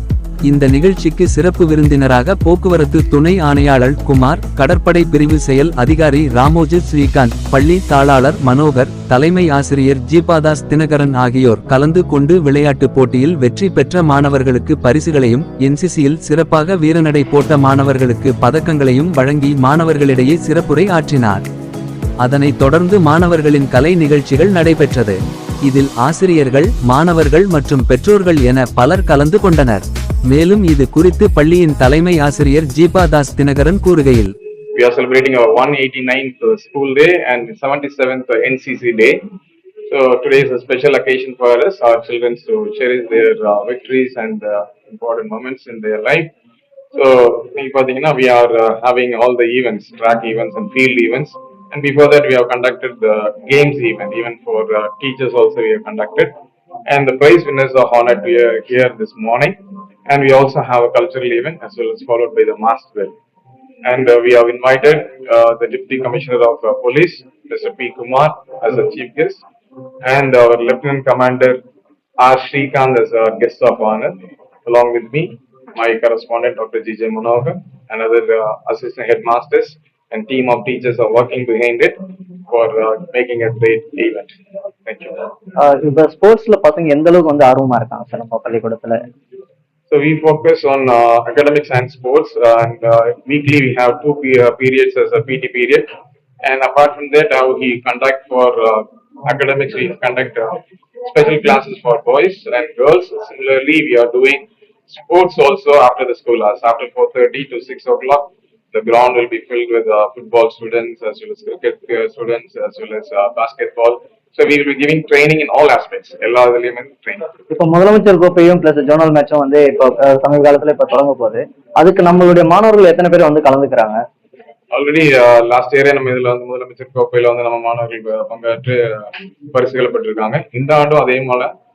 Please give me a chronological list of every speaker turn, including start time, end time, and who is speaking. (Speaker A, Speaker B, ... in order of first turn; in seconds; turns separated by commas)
Speaker A: 0.5-21.4, Speaker A: 22.2-34.3, Speaker B: 34.7-39.2, Speaker B: 39.9-46.3, Speaker B: 46.9-56.3, Speaker B: 56.9-63.1, Speaker B: 63.8-69.4, Speaker B: 70.0-71.6, Speaker B: 72.2-82.0, Speaker B: 82.5-85.3, Speaker C: 85.6-89.0, Speaker B: 89.9-117.3, Speaker C: 117.5-124.0, Speaker B: 124.7-131.5